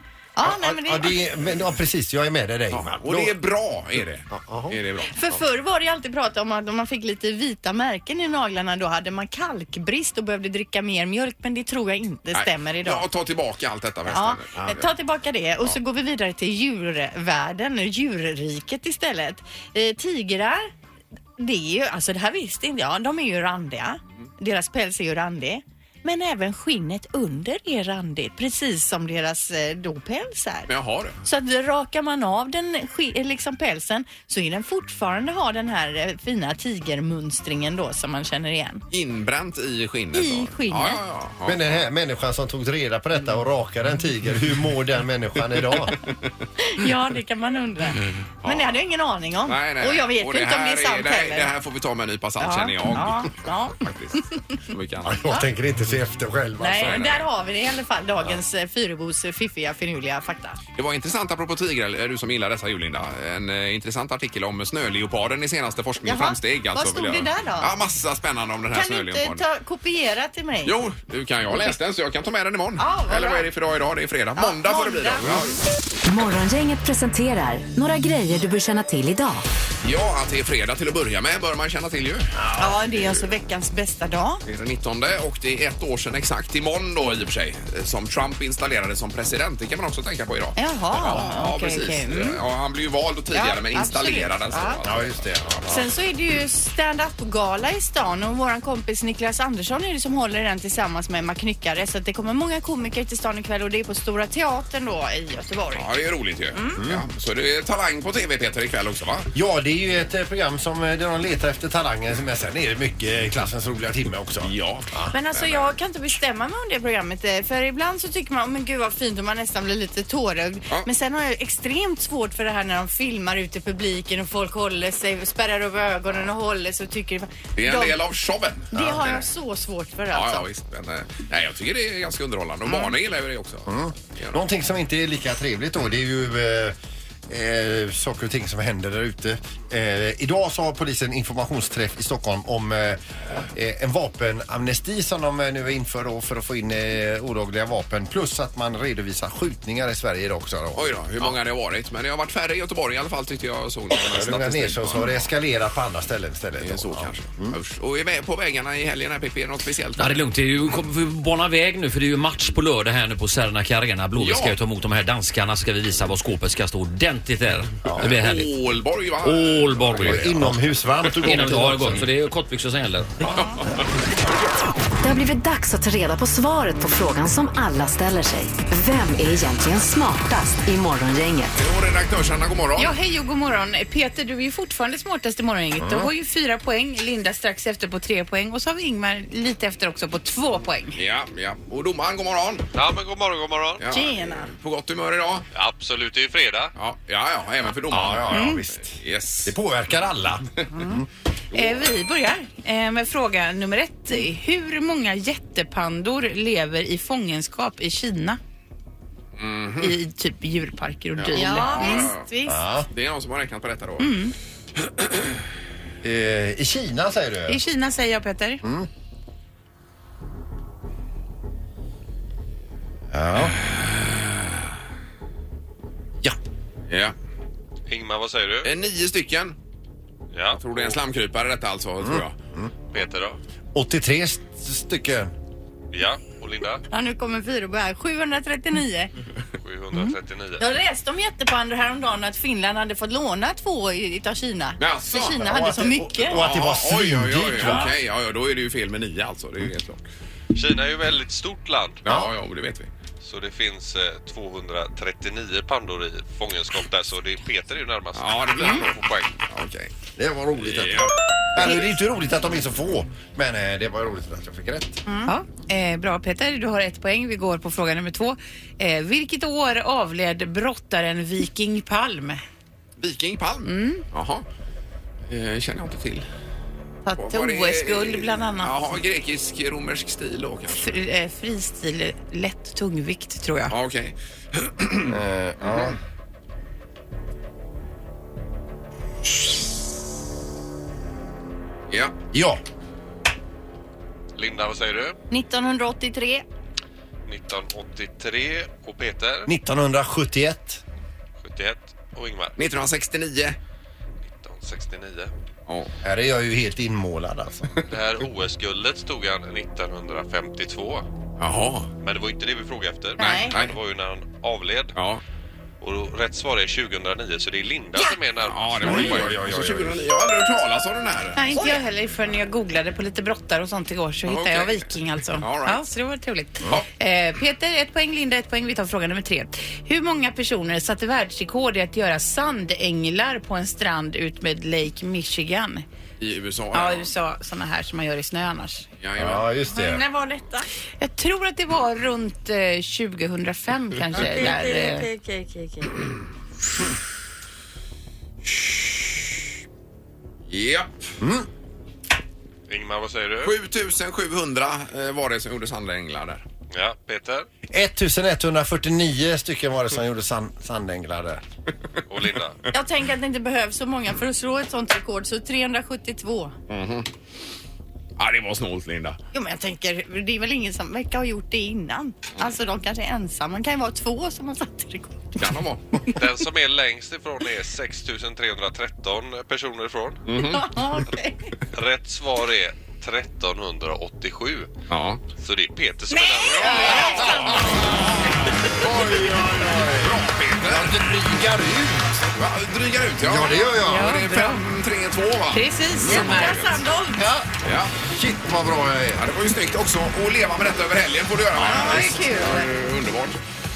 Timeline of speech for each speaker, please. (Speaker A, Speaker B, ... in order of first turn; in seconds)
Speaker A: 0.3-1.2, 5.1-13.0, 14.1-20.7, 21.4-30.7, 31.2-38.8, 40.1-41.0, 46.6-51.5, 52.4-53.8, 56.6-60.6, 66.0-67.7, 68.7-70.8, 72.8-73.5, 74.4-75.3, 82.5-84.4, 90.6-92.4, 93.3-94.8, 95.7-105.8, 115.1-128.0, 128.7-130.4, 193.9-194.5, 211.3-212.6, 236.9-239.1, 240.6-246.4, 295.3-296.4, 313.2-313.5, 344.4-345.4, 362.7-366.5, 369.3-375.4, 380.4-381.5, 386.1-387.6, 396.1-397.3, 401.6-402.7
Speaker B: 0.4-3.4, 4.3-4.8, 41.4-46.0, 55.0-57.1, 82.4-82.8, 94.8-95.9, 106.8-107.0, 109.3-115.1, 128.8-129.0, 133.7-136.8, 137.3-151.3, 154.0-157.6, 167.8-168.1, 170.0-172.0, 185.8-186.1, 197.9-201.0, 212.4-212.9, 216.0-217.6, 218.6-218.9, 223.1-223.6, 232.0-232.7, 233.7-235.3, 245.4-247.9, 260.2-265.0, 285.1-286.0, 292.3-292.6, 299.4-300.8, 306.0-307.7, 318.9-320.0, 339.2-340.0, 351.2-351.5, 357.7-361.4, 387.2-388.1, 388.8-392.3, 393.2-394.1, 398.0-399.2
Speaker C: 2.7-5.1, 12.3-14.9, 30.7-31.2, 38.9-41.8, 48.4-48.8, 49.4-55.4, 56.8-57.2, 60.8-69.4, 70.6-75.6, 79.8-82.4, 84.4-95.6, 105.7-109.3, 114.4-115.7, 127.6-129.2, 130.1-134.4, 150.7-155.2, 156.6-160.2, 164.2-164.6, 168.0-170.5, 173.2-173.8, 181.5-182.9, 190.9-192.7, 193.8-195.5, 196.8-199.5, 201.5-201.9, 209.4-210.0, 211.2-212.3, 212.9-214.2, 223.4-224.5, 226.9-227.1, 228.6-229.6, 230.5-232.3, 244.8-245.5, 246.3-250.0, 252.0-252.9, 258.1-259.9, 260.6-261.9, 273.0-274.4, 275.2-276.3, 277.1-281.0, 283.7-285.9, 291.9-292.1, 302.6-303.6, 311.4-311.9, 313.2-313.8, 314.9-315.2, 318.4-321.4, 324.2-325.8, 336.2-337.1, 339.0-339.5, 348.5-349.2, 350.5-351.1, 353.4-356.4, 366.7-367.1, 368.2-369.2, 375.4-375.9, 380.3-380.7, 384.9-385.2, 386.4-390.9, 392.3-396.8, 397.6-397.9, 399.1-403.4
Speaker D: 76.0-79.4, 175.0-181.5
Speaker E: 160.0-168.5, 169.2-173.2
Speaker F: 182.8-191.0, 198.3-198.6, 201.5-208.4, 209.8-212.1, 214.0-214.3, 217.5-218.6, 265.3-272.4, 273.6-274.0, 277.1-278.8, 280.7-283.7, 321.4-335.8, 336.7-338.8, 339.8-345.1, 386.6-387.0, 393.8-394.6, 395.5-396.9
Speaker G: 192.7-193.8, 195.5-196.7, 227.9-228.7, 230.3-230.6, 232.9-233.4, 235.9-236.8, 239.6-240.6, 250.5-252.0, 253.2-259.4, 294.4-295.2, 297.2-299.5, 301.4-302.5, 304.2-305.3, 307.9-311.1, 312.0-314.9, 315.8-319.1, 352.7-353.5, 356.7-357.5, 362.1-362.6, 376.1-380.2, 381.7-384.7, 385.4-386.9